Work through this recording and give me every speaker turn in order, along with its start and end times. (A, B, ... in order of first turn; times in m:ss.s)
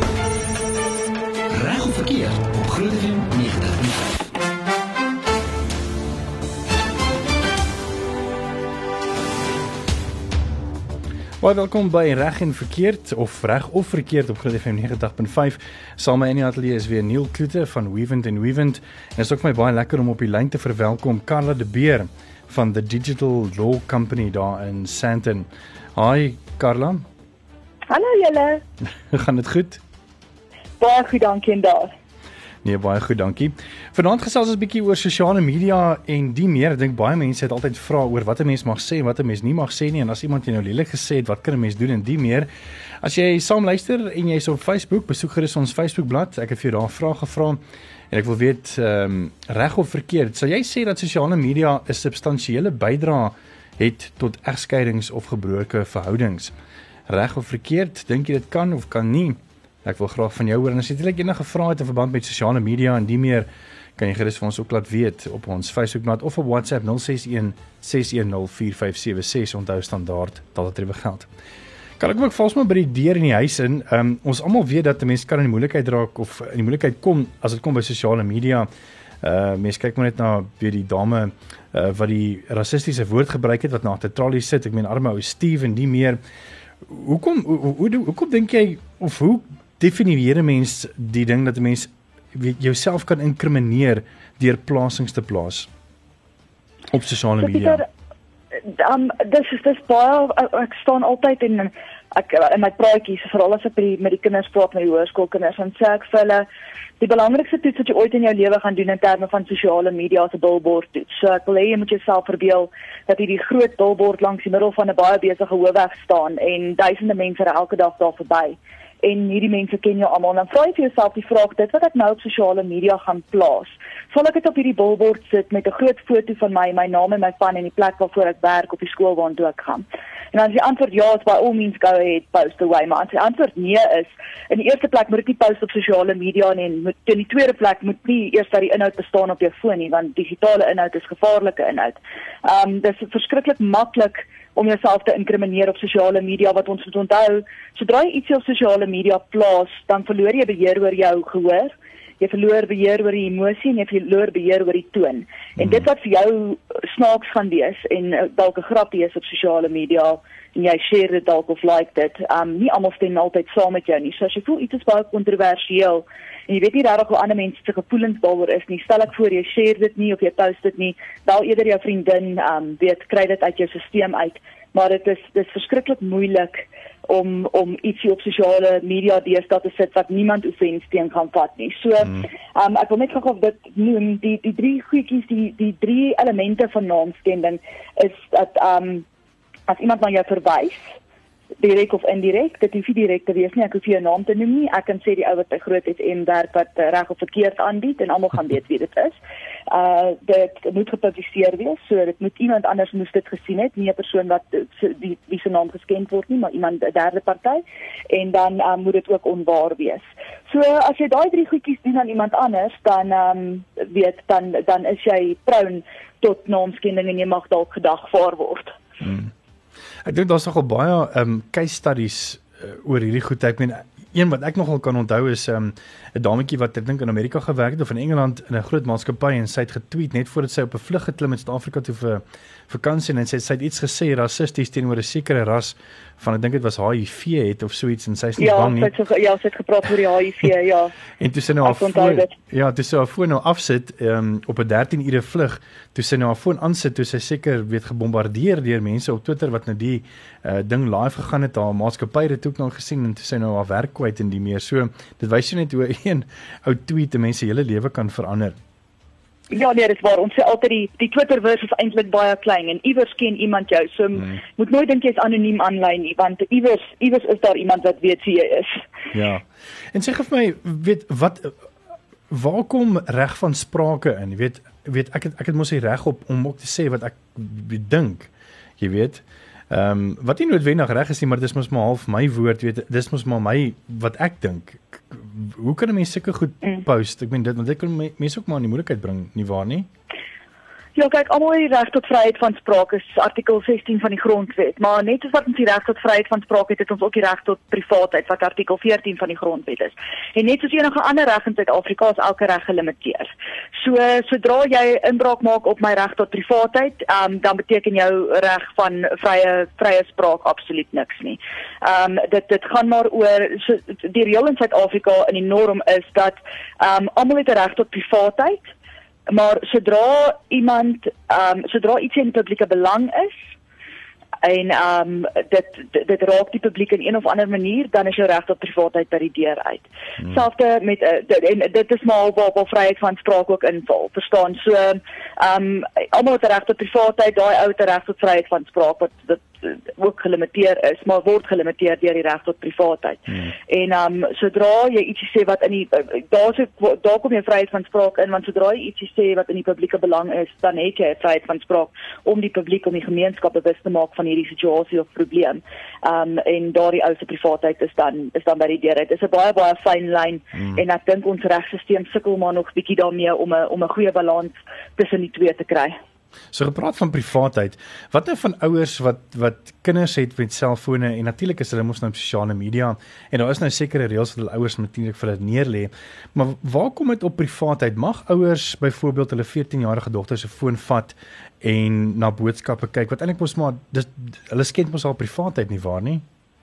0:01.5-0:04.1 A
0:11.4-0:27.0 B
0:27.9-0:28.6 C
0:29.1-0:29.8 B
0:30.8-0:31.9 C
0:32.6-0:42.5 B
0:43.0-0:47.6 B
0:48.1-0:56.5 B
0:57.1-1:11.3 B
1:12.0-1:18.7 B
1:19.2-1:26.2 B
1:26.9-1:35.7 B
1:36.9-1:37.8 B
1:37.4-1:37.8 C
1:38.6-1:46.5 C
1:47.0-3:09.0 C
3:09.7-3:10.8 C
3:11.6-3:38.8 C
3:39.0-3:39.3 B
3:40.0-3:58.9 B
3:58.4-4:00.9 C
4:01.2-4:18.6 B
4:01.6-4:02.3 C
4:19.5-4:28.8 C
4:29.1-4:31.6 B
4:32.3-4:49.9 B
4:51.0-5:18.7 C
5:19.3-5:23.4 C
5:24.4-6:06.0 C
6:00.6-6:00.8 B
6:06.5-6:26.2 B